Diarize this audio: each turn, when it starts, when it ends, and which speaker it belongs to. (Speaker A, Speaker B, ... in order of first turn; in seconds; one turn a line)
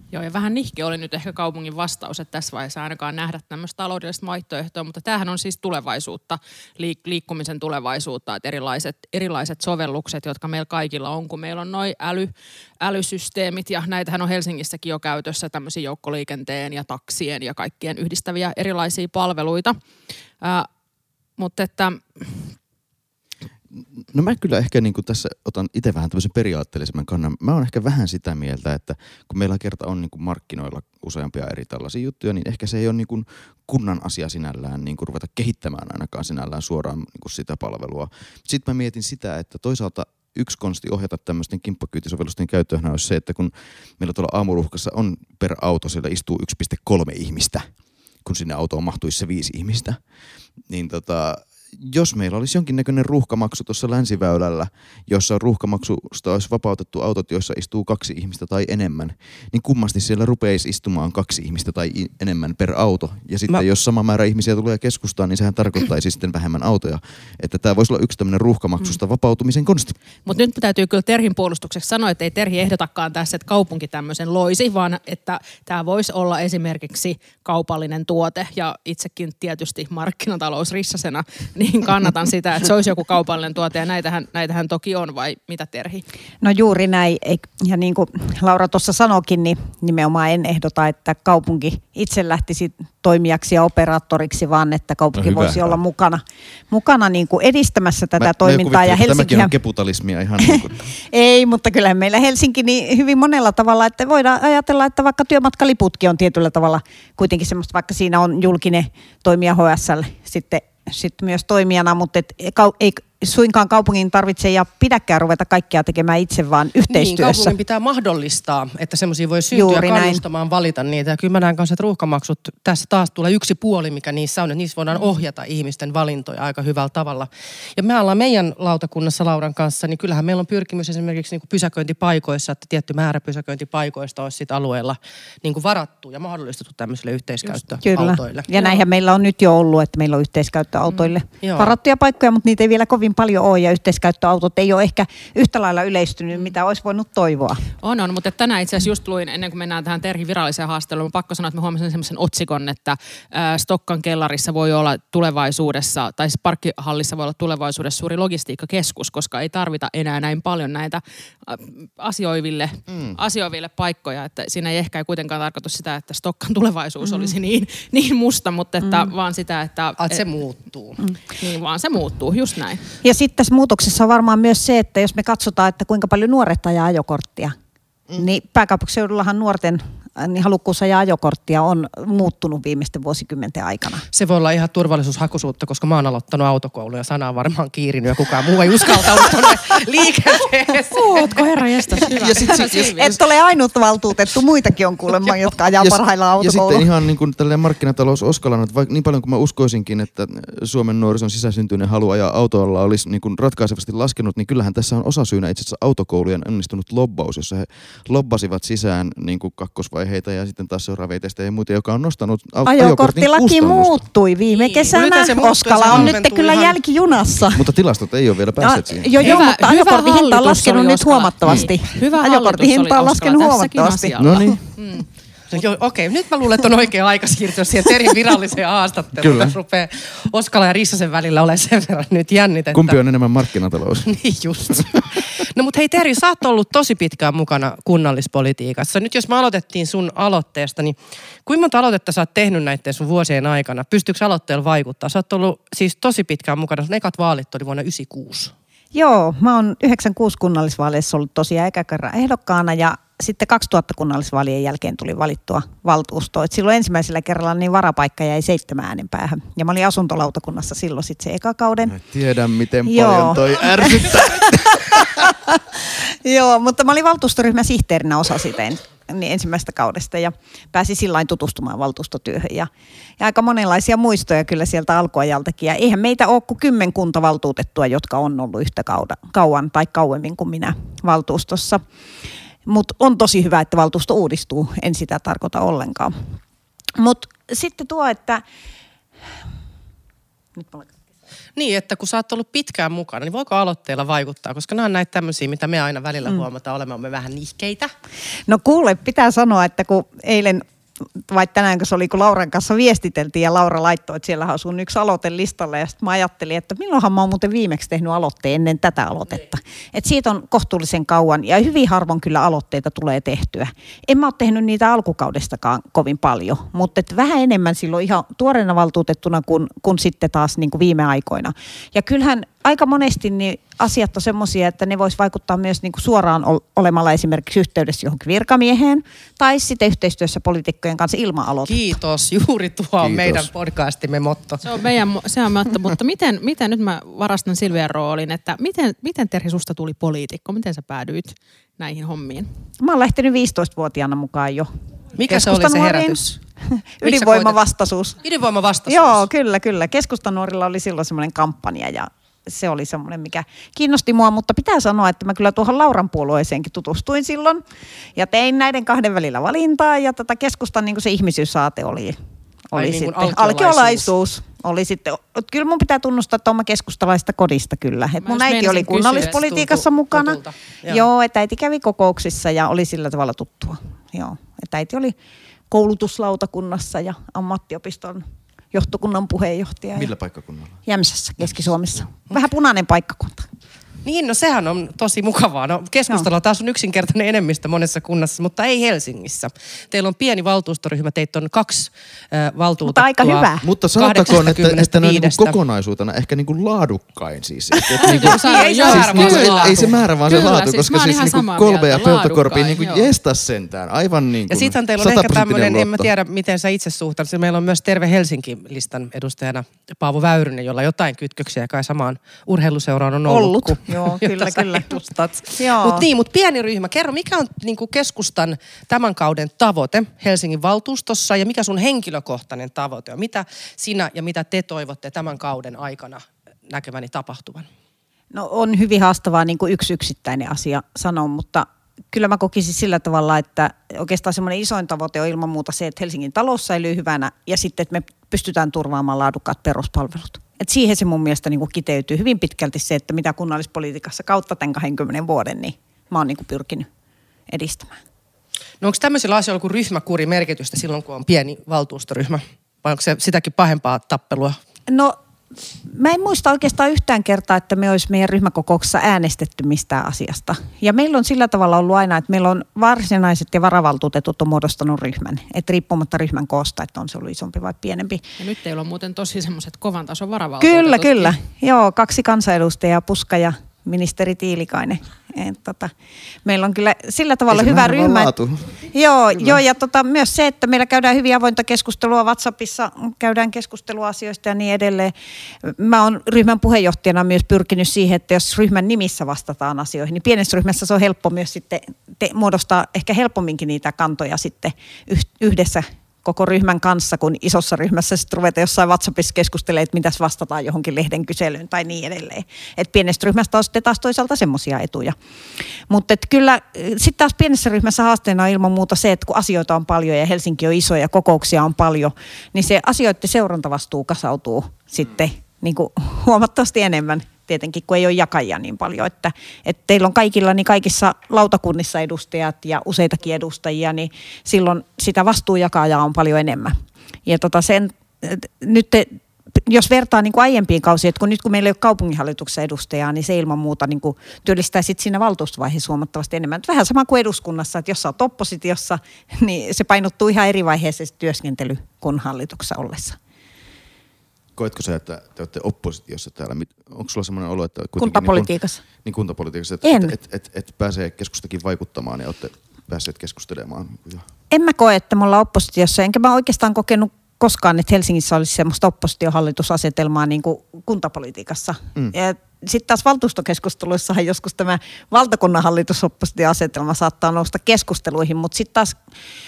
Speaker A: 0.1-19.8
Speaker A: 20.4-20.7
Speaker A: 21.4-22.5
Speaker B: 24.0-47.7
Speaker B: 48.2-50.0
Speaker B: 50.7-69.9
Speaker A: 70.2-86.0
Speaker C: 86.4-99.5
Speaker B: 95.1-95.8
Speaker B: 98.2-100.8
Speaker C: 100.5-117.5
Speaker D: 116.9-138.8
Speaker C: 119.5-120.2
Speaker C: 137.8-147.6
Speaker A: 140.9-141.1
Speaker D: 141.4-141.7
Speaker A: 147.8-170.2
Speaker B: 162.9-163.2
Speaker C: 167.0-167.3
Speaker D: 170.0-171.0
Speaker A: 171.3-172.8
Speaker C: 173.0-177.5
Speaker C: 178.1-184.1
Speaker D: 184.1-191.4
Speaker A: 190.9-193.1
Speaker B: 192.2-193.2
Speaker C: 192.3-196.9
Speaker B: 195.8-214.0
Speaker C: 212.6-217.7
Speaker A: 214.5-214.9
Speaker D: 214.9-216.8
Speaker B: 217.5-219.1
Speaker C: 218.6-224.5
Speaker A: 219.2-225.0
Speaker B: 221.4-221.7
Speaker B: 224.2-224.6
Speaker D: 225.5-233.0
Speaker B: 229.2-229.6
Speaker B: 232.7-234.1
Speaker D: 234.0-248.5
Speaker C: 248.9-261.9
Speaker B: 261.8-265.3
Speaker C: 262.9-281.8
Speaker C: 282.7-286.1
Speaker C: 287.0-288.4
Speaker C: 290.6-290.9
Speaker D: 291.6-297.9
Speaker C: 298.5-300.6
Speaker C: 301.2-332.0
Speaker D: 331.6-334.6
Speaker B: 333.0-333.5
Speaker A: 334.6-342.5
Speaker C: 342.8-344.7
Speaker D: 345.2-346.4
Speaker C: 345.3-348.2
Speaker D: 347.0-347.6
Speaker D: 348.2-349.3
Speaker C: 348.9-357.6
Speaker C: 358.1-362.2
Speaker C: 362.7-370.4
Speaker D: 362.7-364.1
Speaker A: 368.2-369.4
Speaker D: 369.1-371.1
Speaker C: 370.9-375.1
Speaker C: 375.7-380.1
Speaker B: 379.9-380.8
Speaker C: 380.9-383.5
Speaker D: 384.0-395.6
Speaker C: 392.8-393.7
Speaker B: 393.6-406.1
Speaker A: 398.0-403.1
Speaker D: 398.2-400.0
Speaker C: 398.5-398.9
Speaker D: 404.5-427.7
Speaker C: 413.3-415.0
Speaker C: 415.6-416.1
Speaker C: 428.3-446.9
Speaker C: 447.5-448.0
Speaker D: 448.8-454.6
Speaker C: 454.9-455.1
Speaker C: 455.9-468.2
Speaker A: 468.4-471.4
Speaker C: 470.6-475.9
Speaker C: 476.4-478.3
Speaker B: 477.5-478.7
Speaker C: 478.9-485.1
Speaker B: 479.3-479.6
Speaker C: 485.6-505.1
Speaker C: 505.9-543.2
Speaker B: 544.5-548.5
Speaker C: 548.0-548.8
Speaker B: 549.0-554.2
Speaker C: 549.8-550.1
Speaker C: 554.5-569.0